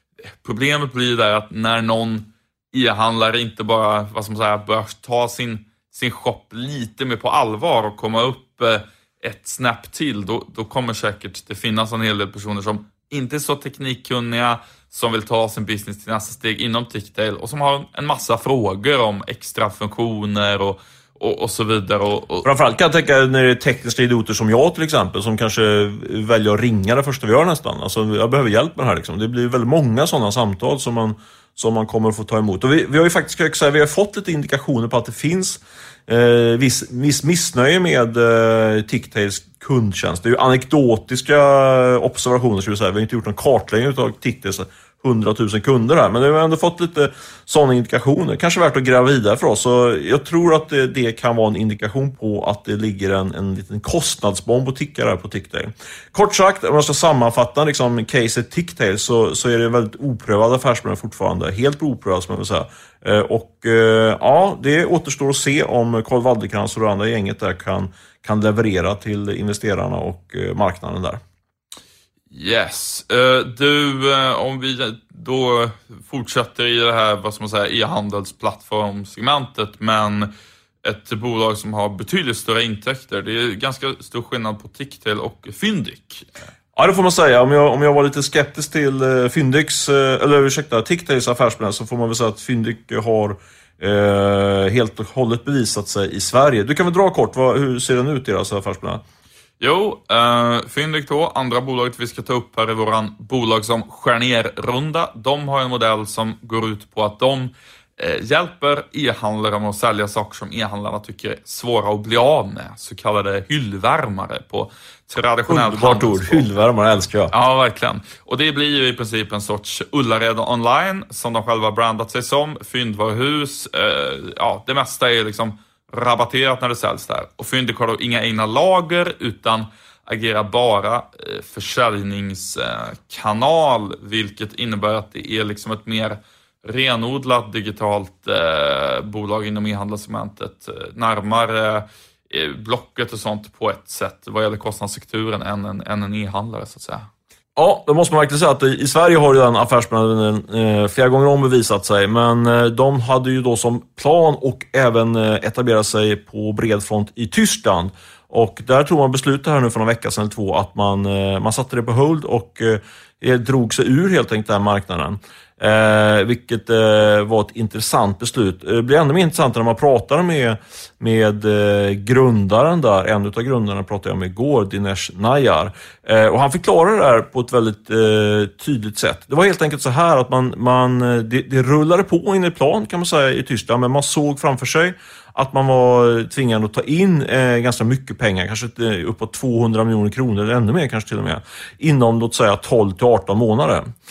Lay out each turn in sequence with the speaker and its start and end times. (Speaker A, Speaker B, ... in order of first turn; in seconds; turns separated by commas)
Speaker A: 0.4-22.5, Speaker B: 22.4-71.2, Speaker A: 72.3-80.3, Speaker A: 80.8-86.3, Speaker B: 86.7-99.0, Speaker A: 99.6-116.5, Speaker B: 115.5-117.3, Speaker A: 117.3-147.1, Speaker B: 147.6-193.8